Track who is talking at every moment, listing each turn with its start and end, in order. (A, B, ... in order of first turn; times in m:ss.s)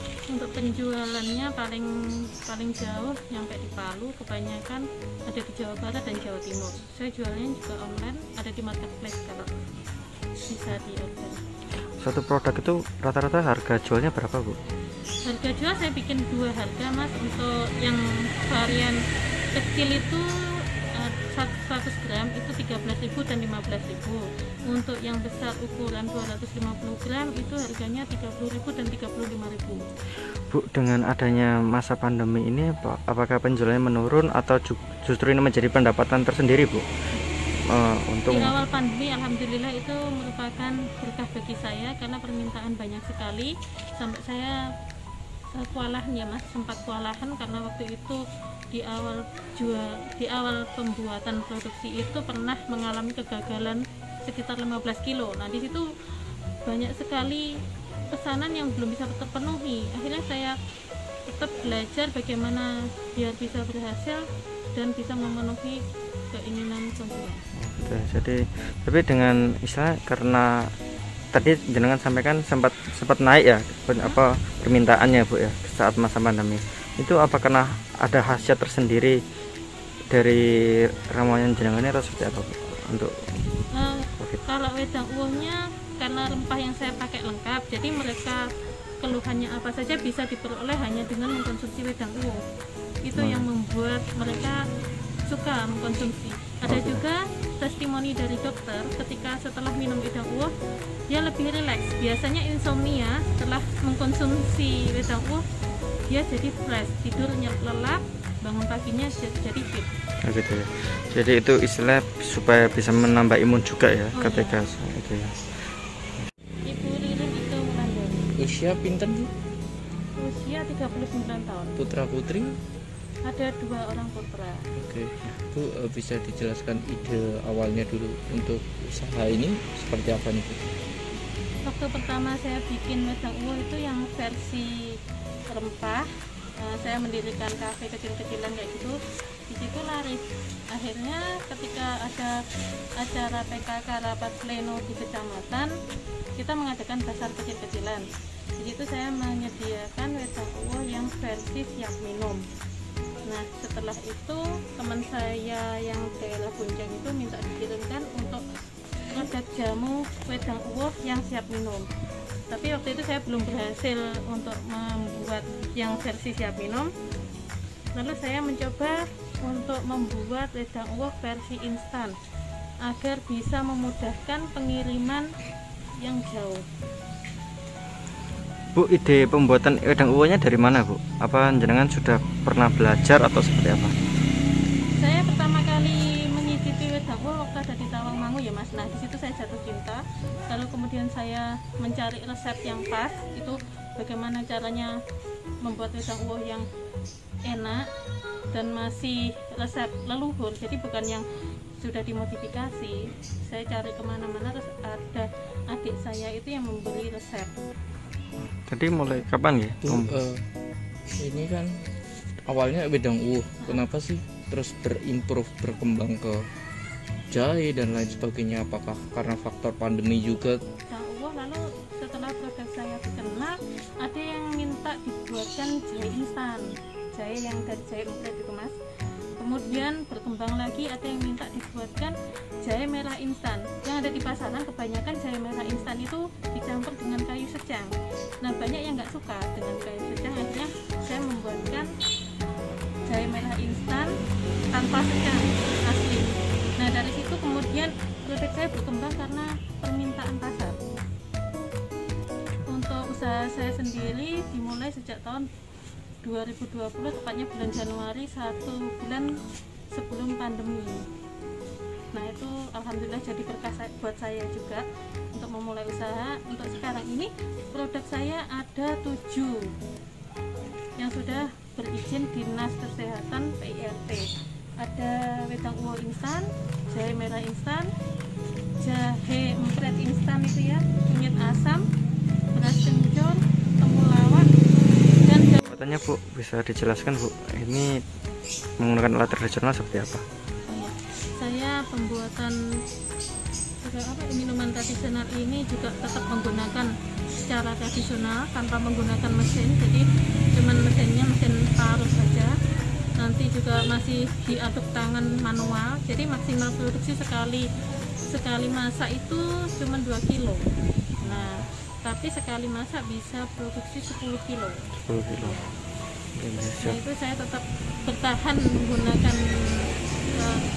0:00.3-0:09.5 A
0:10.4-0:11.4 A
0:12.0-0:14.6 B
0:15.2-0:19.0 A
0:19.5-0:29.8 A
0:30.5-0:36.8 B
0:37.6-0:38.6 B
0:38.3-0:44.6 A
0:45.5-0:48.2 A
0:48.7-0:55.9 A
0:56.6-1:00.6 A
1:01.3-1:07.4 A
1:07.5-1:10.7 B
1:11.3-1:19.2 B
1:14.0-1:14.2 A
1:20.1-1:23.4 B
1:23.7-1:28.5 A
1:29.0-1:32.4 A
1:33.0-1:34.6 A
1:33.1-1:33.4 B
1:35.3-1:40.5 A
1:36.6-1:37.0 B
1:41.1-1:45.4 A
1:46.1-1:49.9 A
1:50.2-1:55.7 B
1:54.1-1:54.6 A
1:56.6-1:58.3 A
1:58.4-1:59.3 C
2:00.2-2:01.8 A
2:01.8-2:02.6 C
2:03.2-2:04.7 A
2:04.7-2:10.7 C
2:11.6-2:22.4 A
2:23.0-2:25.7 A
2:26.4-2:32.4 A
2:33.2-2:38.4 A
2:39.1-2:41.9 A
2:42.5-2:46.9 A
2:47.9-2:52.2 A
2:52.8-2:55.3 A
2:56.0-2:56.6 A
2:58.7-3:03.9 B
3:05.0-3:15.0 A
3:15.6-3:16.6 A
3:17.4-3:17.9 A
3:18.5-3:21.3 A
3:21.8-3:27.5 A
3:28.6-3:30.2 B
3:29.8-3:30.5 C
3:31.2-3:31.9 C
3:32.5-3:36.5 C
3:37.3-3:40.6 C
3:40.9-3:48.8 A
3:49.4-4:01.9 A
4:03.0-4:04.2 A
4:04.7-4:10.8 A
4:12.6-4:15.5 A
4:16.2-4:19.4 A
4:19.9-4:21.1 A
4:22.1-4:29.7 A
4:31.0-4:37.9 A
4:38.8-4:41.8 A
4:42.5-4:44.5 A
4:45.2-4:45.6 A
4:45.7-4:48.0 B
4:48.8-4:50.2 B
4:50.7-4:52.6 A
4:53.8-4:56.9 A
4:57.4-5:02.6 A
5:03.2-5:07.7 A
5:08.3-5:10.7 A
5:11.2-5:11.5 B
5:11.2-5:14.9 A
5:15.0-5:15.6 B
5:16.3-5:17.0 B
5:16.8-5:20.6 A